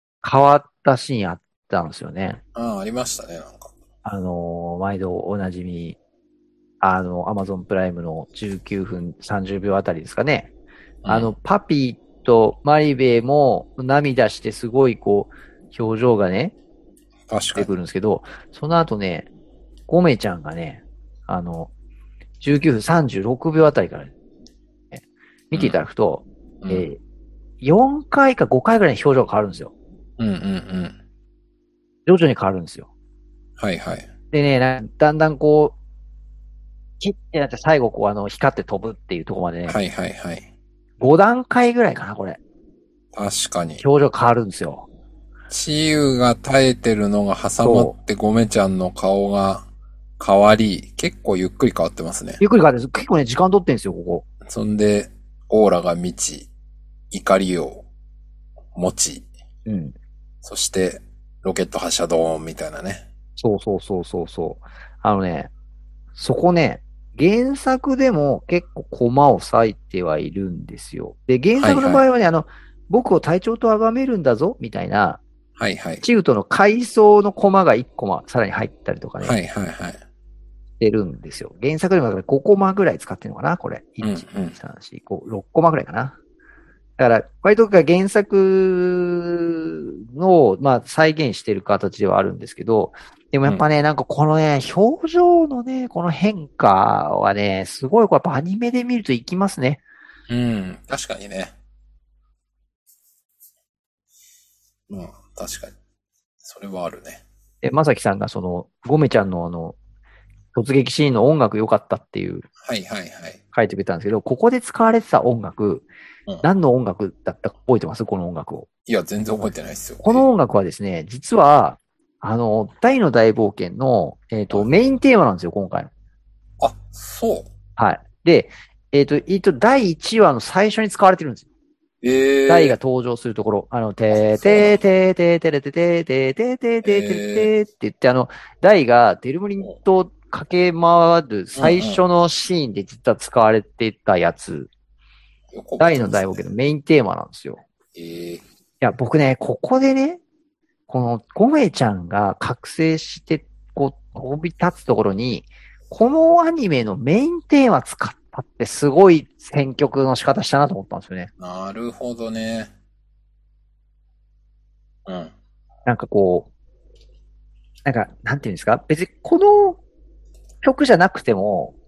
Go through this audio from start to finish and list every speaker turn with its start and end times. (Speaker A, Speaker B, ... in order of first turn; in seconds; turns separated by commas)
Speaker A: 0.2-2.4, Speaker B: 2.5-3.7, Speaker A: 4.0-6.0, Speaker A: 6.8-10.5, Speaker B: 11.0-11.3, Speaker A: 11.1-16.5, Speaker B: 17.3-17.7, Speaker A: 17.6-19.3, Speaker A: 19.9-21.7, Speaker A: 22.4-24.1, Speaker A: 24.9-27.0, Speaker B: 25.5-25.8, Speaker B: 26.6-26.9, Speaker A: 27.6-29.7, Speaker B: 30.2-30.9, Speaker A: 32.1-32.9, Speaker B: 33.6-34.1, Speaker A: 34.3-35.8, Speaker A: 37.0-39.8, Speaker B: 39.7-40.5, Speaker A: 41.0-42.4, Speaker B: 43.1-43.8, Speaker A: 43.8-44.9, Speaker B: 45.5-49.6, Speaker A: 47.6-47.9, Speaker B: 50.2-52.4, Speaker A: 52.4-54.2, Speaker B: 54.5-56.5, Speaker B: 57.1-57.9, Speaker B: 58.8-59.3, Speaker A: 59.7-59.9, Speaker B: 60.4-63.1, Speaker A: 63.4-65.5, Speaker A: 66.2-75.2, Speaker B: 71.6-72.0, Speaker B: 75.6-76.0, Speaker A: 76.0-79.4, Speaker B: 79.2-80.0, Speaker A: 80.8-86.2, Speaker B: 84.0-84.6, Speaker A: 87.0-99.8, Speaker B: 100.3-101.5, Speaker B: 104.9-105.7, Speaker B: 106.4-107.2, Speaker A: 107.6-109.8, Speaker A: 110.5-112.5, Speaker B: 112.6-113.4, Speaker A: 113.5-115.9, Speaker A: 116.4-118.7, Speaker B: 118.9-120.3, Speaker A: 120.0-125.9, Speaker B: 126.6-127.5, Speaker A: 127.8-131.5, Speaker B: 132.0-132.8, Speaker A: 132.5-144.7, Speaker B: 134.1-134.8, Speaker B: 136.8-137.5, Speaker B: 141.6-142.0, Speaker B: 145.5-146.5, Speaker A: 145.8-147.6, Speaker B: 147.9-148.4, Speaker A: 148.8-150.2, Speaker A: 150.9-161.3, Speaker B: 161.4-162.7, Speaker B: 165.1-165.3, Speaker A: 165.9-166.5, Speaker A: 167.8-169.8, Speaker A: 170.6-171.8